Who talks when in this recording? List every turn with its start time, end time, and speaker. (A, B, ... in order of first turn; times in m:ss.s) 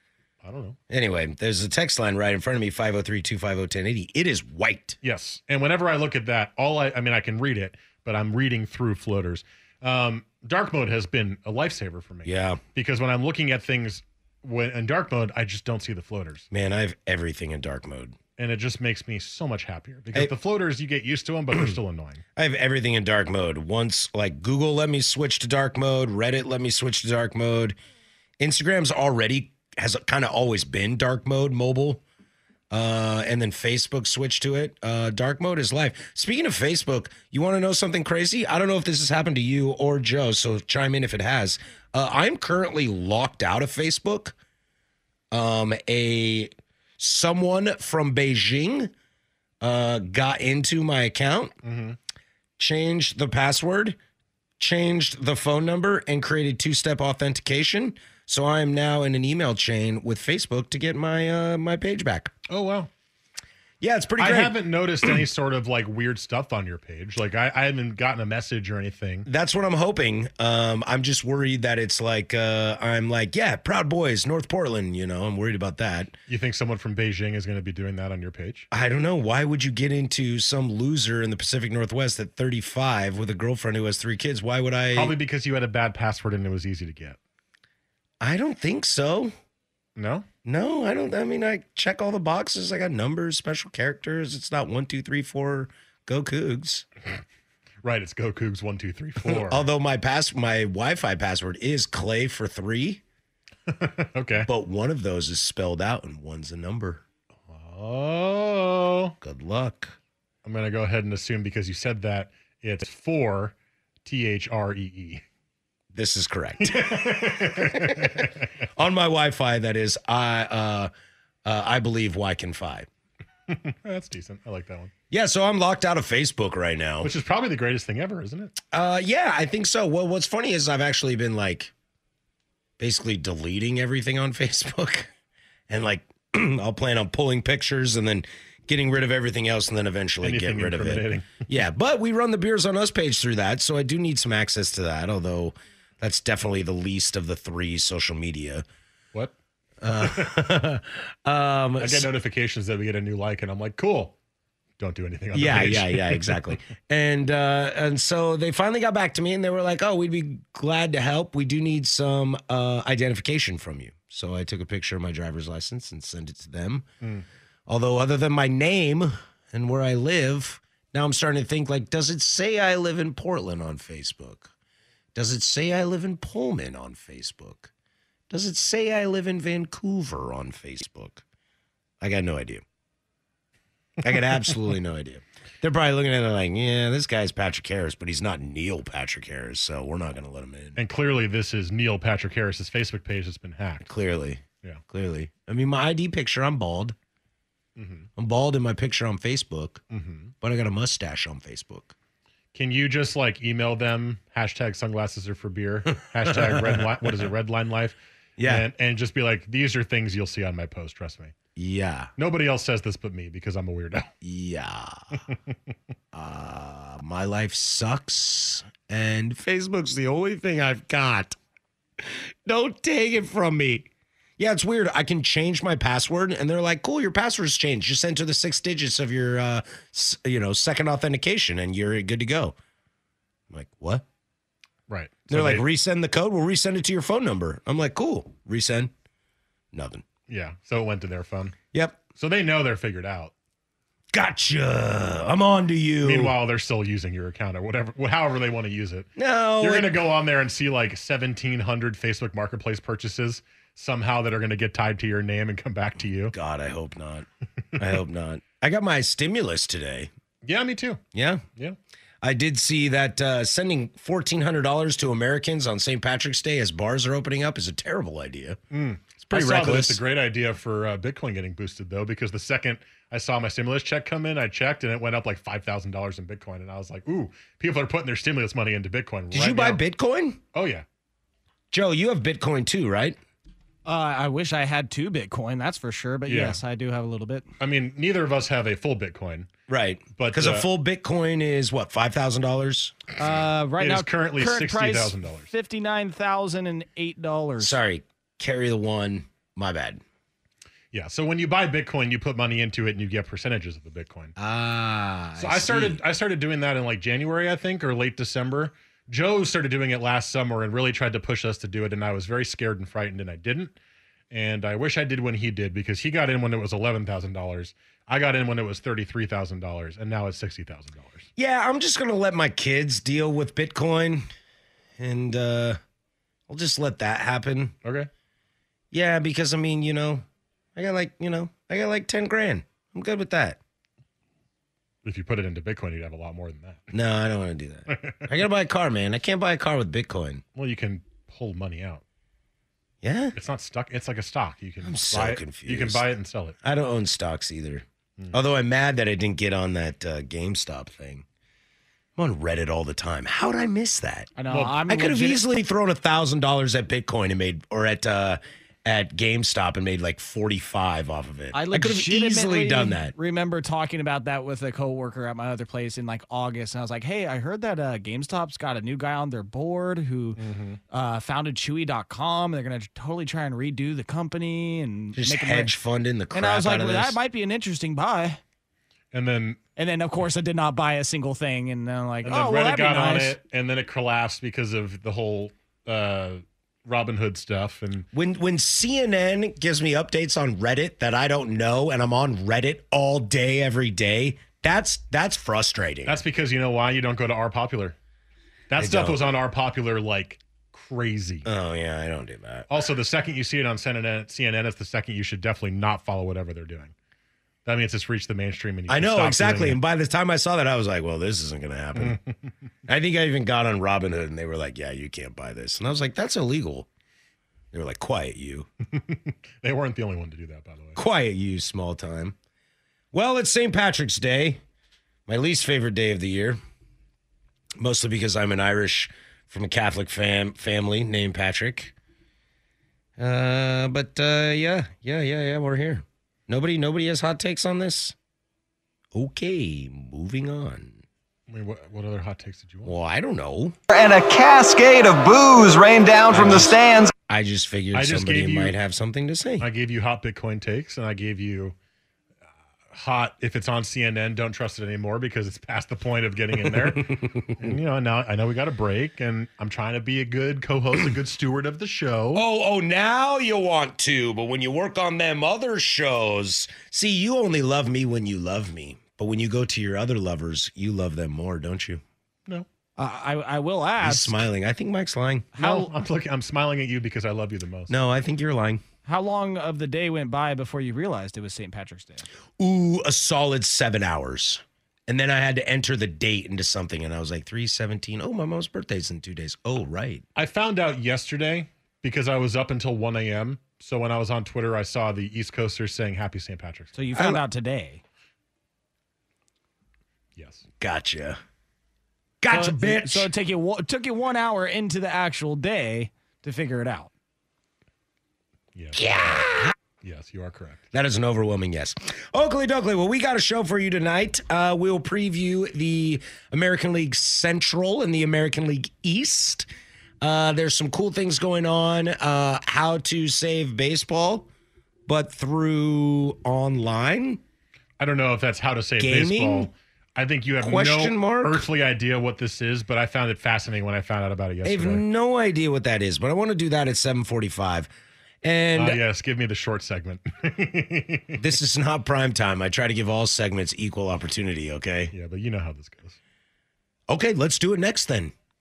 0:00.4-0:00.8 A
0:00.9-0:05.0 B
0:05.0-0:16.5 A
0:12.2-0:12.6 B
0:16.5-0:18.2 B
0:18.4-0:22.2 A
0:22.4-0:27.8 B
0:28.4-0:32.0 B
0:32.7-0:44.4 B
0:45.3-0:48.9 B
0:49.6-0:51.6 B
0:51.6-0:52.0 A
0:52.6-0:54.0 B
0:54.6-1:02.3 B
1:02.5-1:02.9 A
1:03.8-1:04.6 B
1:04.2-1:09.3 A
1:09.2-1:16.2 B
1:16.3-1:18.7 A
1:18.7-1:25.2 B
1:24.9-1:27.2 A
1:28.2-1:29.3 B
1:30.0-1:30.2 A
1:30.4-1:36.8 B
1:37.8-1:39.7 A
1:39.2-1:43.0 B
1:43.7-1:44.5 A
1:44.4-1:47.0 B
1:47.5-1:49.1 A
1:49.2-1:50.0 B
1:50.4-1:55.2 A
1:55.9-2:00.9 B
1:56.6-1:58.3 A
2:01.4-2:02.9 B
2:03.5-2:04.9 A
2:05.1-2:07.1 B
2:07.0-2:08.5 A
2:08.7-2:11.7 B
2:12.8-2:15.1 B
2:15.7-2:28.6 B
2:20.2-2:21.3 A
2:29.8-2:32.1 B
2:30.0-2:30.3 A
2:31.8-2:34.2 A
2:34.8-2:36.4 A
2:35.3-2:46.8 B
2:47.7-2:54.5 B
2:55.1-2:57.7 B
2:58.3-3:01.2 B
3:02.0-3:02.6 B
3:04.0-3:10.8 B
3:10.8-3:13.8 A
3:13.8-3:17.0 B
3:17.8-3:18.1 A
3:18.2-3:19.8 B
3:19.9-3:20.3 A
3:20.4-3:21.9 B
3:22.5-3:31.3 A
3:26.1-3:27.2 B
3:28.4-3:28.7 B
3:31.6-3:32.1 B
3:32.2-3:34.1 A
3:34.2-3:35.0 B
3:36.1-3:41.4 B
3:42.0-3:52.6 B
3:53.5-3:54.0 B
3:54.9-3:55.7 A
3:55.3-3:58.9 B
3:59.7-4:00.0 B
4:00.3-4:01.6 A
4:01.7-4:02.0 B
4:02.2-4:03.3 A
4:04.1-4:06.3 B
4:06.0-4:16.3 A
4:09.2-4:10.0 B
4:16.3-4:20.1 B
4:20.4-4:21.0 A
4:21.1-4:21.4 B
4:22.2-4:28.6 B
4:28.7-4:39.8 A
4:29.2-4:30.0 B
4:39.3-4:40.4 B
4:40.5-4:40.8 A
4:41.7-4:43.2 B
4:43.8-4:47.5 C
4:46.2-4:46.6 A
4:47.6-4:49.5 A
4:49.7-4:53.1 B
4:50.1-4:50.7 A
4:53.2-4:57.8 C
4:53.8-4:55.5 A
4:57.6-5:00.0 B
5:00.9-5:04.3 A
5:04.4-5:06.0 B
5:05.4-5:13.7 A
5:14.3-5:21.3 A
5:21.4-5:24.2 B
5:25.0-5:25.8 B
5:26.5-5:27.7 B
5:27.8-5:28.1 A
5:28.9-5:30.2 B
5:30.8-5:33.6 B
5:35.0-5:36.8 A
5:36.9-5:40.4 B
5:37.9-5:38.2 A
5:40.6-5:42.0 A
5:43.0-5:43.4 B
5:43.3-5:46.6 A
5:44.8-5:46.0 B
5:46.6-5:51.2 B
5:52.2-5:54.3 B
5:54.4-5:55.4 C
5:54.5-5:54.8 A
5:54.8-6:03.1 B
6:01.5-6:10.4 C
6:10.4-6:10.8 A
6:10.9-6:15.7 C
6:15.1-6:17.2 B
6:16.3-6:18.4 C
6:19.1-6:19.6 A
6:19.8-6:23.4 C
6:22.2-6:28.1 A
6:28.1-6:36.2 B
6:36.1-6:38.0 A
6:38.7-6:41.5 A
6:38.8-6:39.3 B
6:41.4-6:42.7 B
6:42.7-6:46.9 A
6:47.6-6:49.8 A
6:48.9-6:52.2 B
6:52.0-6:52.2 A
6:52.9-6:56.9 B
6:57.7-6:58.7 B
6:59.0-7:01.0 A
7:01.0-7:02.4 B
7:03.1-7:04.6 B
7:05.3-7:06.6 B
7:07.8-7:11.9 B
7:13.2-7:18.1 B
7:19.1-7:21.0 B
7:21.5-7:22.9 A
7:22.8-7:23.8 B
7:23.9-7:27.1 D
7:26.3-7:26.7 A
7:26.4-7:26.7 B
7:27.3-7:29.7 B
7:27.9-7:28.8 A
7:29.6-7:31.8 A
7:32.9-7:42.4 A
7:36.6-7:37.7 B
7:42.3-7:52.0 B
7:53.0-7:54.4 C
7:54.0-7:55.5 B
7:55.6-7:55.9 C
7:55.6-7:58.0 A
7:57.9-7:58.8 B
7:59.0-8:02.3 C
8:02.6-8:10.2 B
8:10.3-8:16.9 A
8:16.9-8:18.0 C
8:17.1-8:17.4 B
8:20.4-8:20.6 A
8:20.8-8:21.4 B
8:22.4-8:23.3 B
8:22.5-8:27.1 C
8:28.7-8:29.4 A
8:28.9-8:29.7 B
8:30.0-8:30.8 A
8:30.9-8:39.7 B
8:40.2-8:44.5 B
8:45.1-8:47.4 B
8:48.0-8:55.0 A
8:49.0-8:49.7 B
8:50.6-8:51.6 B
8:54.6-8:57.9 B
8:58.4-8:59.0 B
8:58.7-9:01.4 A
9:01.4-9:05.1 B
9:05.1-9:06.2 A
9:07.1-9:08.3 B